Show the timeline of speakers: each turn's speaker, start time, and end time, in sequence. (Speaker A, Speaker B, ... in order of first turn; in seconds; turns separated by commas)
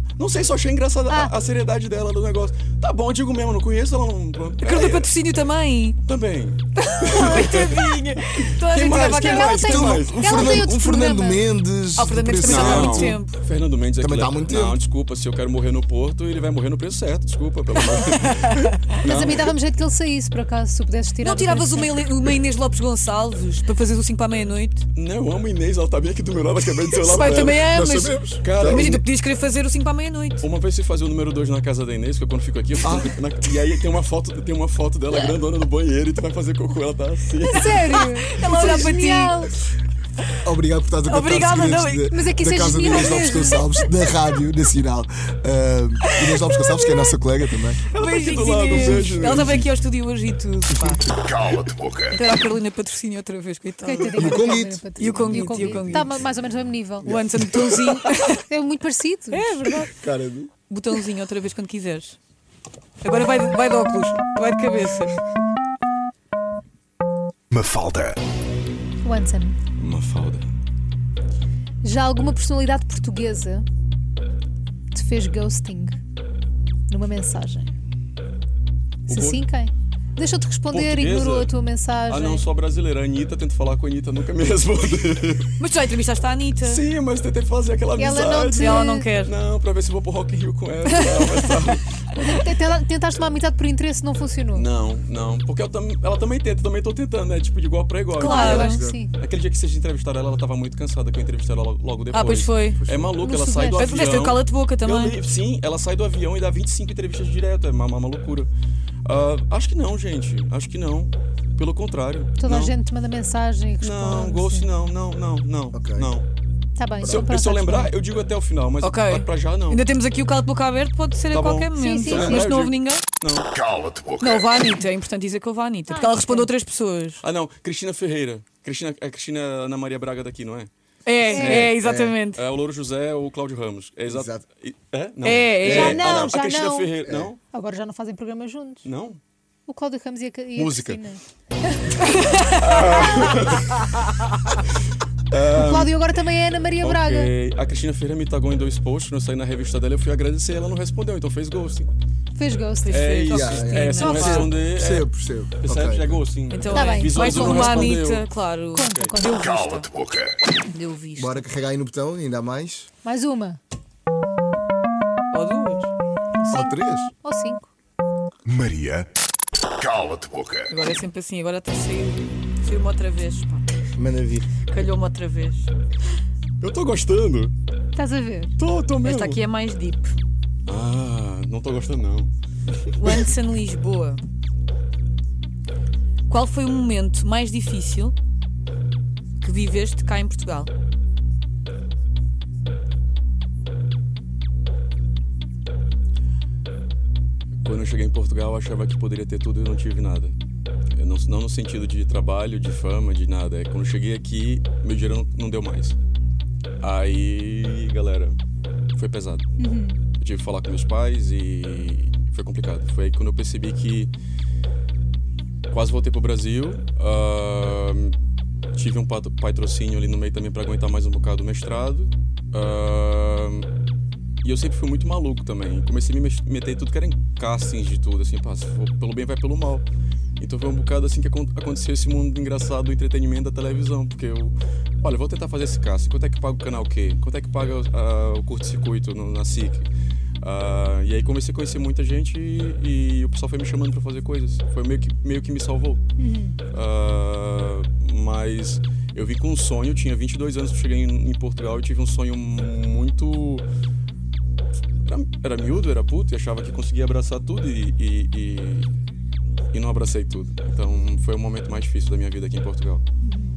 Speaker A: 0.2-5.1, Speaker B: 4.6-6.0, Speaker A: 6.0-8.0, Speaker B: 6.8-9.9, Speaker C: 7.2-7.5, Speaker A: 8.6-10.6, Speaker C: 9.0-11.5, Speaker D: 9.4-13.2, Speaker B: 12.0-13.4, Speaker A: 12.4-19.5, Speaker D: 14.0-14.8, Speaker B: 17.9-18.8, Speaker C: 19.0-22.1, Speaker B: 21.2-24.8, Speaker A: 24.9-27.6, Speaker B: 26.9-30.5, Speaker D: 27.2-29.0, Speaker A: 28.4-29.0, Speaker A: 30.4-38.0, Speaker D: 32.8-33.2, Speaker C: 37.4-39.5, Speaker B: 37.9-39.4, Speaker D: 40.4-47.8, Speaker B: 41.0-42.1, Speaker C: 42.1-43.6, Speaker B: 42.8-43.7, Speaker B: 46.1-46.4, Speaker A: 47.9-49.7, Speaker B: 47.9-51.0, Speaker D: 48.7-49.5, Speaker B: 52.0-56.2, Speaker C: 53.8-57.2, Speaker D: 54.0-56.1, Speaker B: 57.0-58.4, Speaker D: 57.0-57.9, Speaker C: 58.4-59.8, Speaker B: 59.3-59.9, Speaker D: 59.8-60.5, Speaker B: 60.7-62.2, Speaker B: 63.0-65.2, Speaker E: 67.5-68.2, Speaker C: 69.0-69.6, Speaker A: 69.8-70.5, Speaker C: 71.8-73.7, Speaker C: 74.9-75.9, Speaker C: 76.9-77.7, Speaker A: 79.1-79.5, Speaker C: 79.1-82.4, Speaker A: 80.7-81.5, Speaker A: 82.1-85.5, Speaker B: 85.6-86.8, Speaker A: 86.6-92.4, Speaker C: 88.0-89.0, Speaker B: 88.5-89.3, Speaker C: 92.1-94.7, Speaker A: 94.5-108.5, Speaker B: 98.2-98.8, Speaker C: 98.2-99.1, Speaker D: 98.4-99.0, Speaker B: 102.1-102.8, Speaker D: 102.8-103.1, Speaker C: 103.2-104.2, Speaker B: 103.7-105.2, Speaker A: 109.0-112.7, Speaker C: 112.4-114.7, Speaker A: 113.8-116.3, Speaker D: 115.7-116.1, Speaker C: 116.8-117.9, Speaker D: 117.0-117.3, Speaker A: 117.0-119.8, Speaker B: 118.8-123.0, Speaker A: 121.3-124.2, Speaker C: 121.7-122.5, Speaker D: 122.1-122.4, Speaker B: 124.2-127.2, Speaker C: 125.9-126.5, Speaker A: 127.2-130.7, Speaker B: 131.0-132.4, Speaker C: 131.3-131.7, Speaker A: 131.3-131.8, Speaker D: 131.5-132.2, Speaker A: 132.3-137.4, Speaker D: 134.1-134.4, Speaker B: 135.2-136.0, Speaker D: 135.3-136.4, Speaker C: 135.6-138.9, Speaker D: 137.0-137.3, Speaker A: 138.8-139.2, Speaker C: 139.7-143.3, Speaker A: 140.5-141.0, Speaker B: 142.1-142.6, Speaker A: 142.6-143.9, Speaker A: 145.3-146.0, Speaker C: 145.5-147.3, Speaker A: 146.8-151.9, Speaker C: 152.3-153.2, Speaker B: 152.8-154.5, Speaker A: 152.9-158.3, Speaker D: 153.3-156.2, Speaker C: 153.9-154.5, Speaker B: 156.5-159.9, Speaker C: 156.7-158.0, Speaker C: 158.7-159.5, Speaker B: 160.7-161.4, Speaker D: 161.2-162.9, Speaker C: 163.0-163.6, Speaker B: 165.3-165.9, Speaker C: 166.4-167.7, Speaker D: 166.5-167.1, Speaker E: 168.4-169.1, Speaker E: 169.8-170.6, Speaker B: 170.7-173.6, Speaker D: 173.9-174.5, Speaker B: 174.7-175.7, Speaker A: 176.6-177.5, Speaker C: 177.9-178.5, Speaker A: 178.6-179.4, Speaker B: 179.0-180.2, Speaker A: 180.7-182.3, Speaker A: 182.8-183.2, Speaker B: 183.0-184.2, Speaker B: 186.3-188.1, Speaker B: 189.4-190.7, Speaker A: 197.6-200.3, Speaker A: 200.9-205.9, Speaker A: 206.8-208.4, Speaker A: 208.9-209.4, Speaker C: 209.6-210.0, Speaker A: 210.2-214.1, Speaker A: 215.7-218.2, Speaker A: 218.7-223.7, Speaker A: 224.4-229.8, Speaker A: 230.4-239.9, Speaker A: 240.4-246.0, Speaker C: 246.2-246.6, Speaker A: 246.7-253.7, Speaker A: 255.1-258.9, Speaker A: 259.7-263.0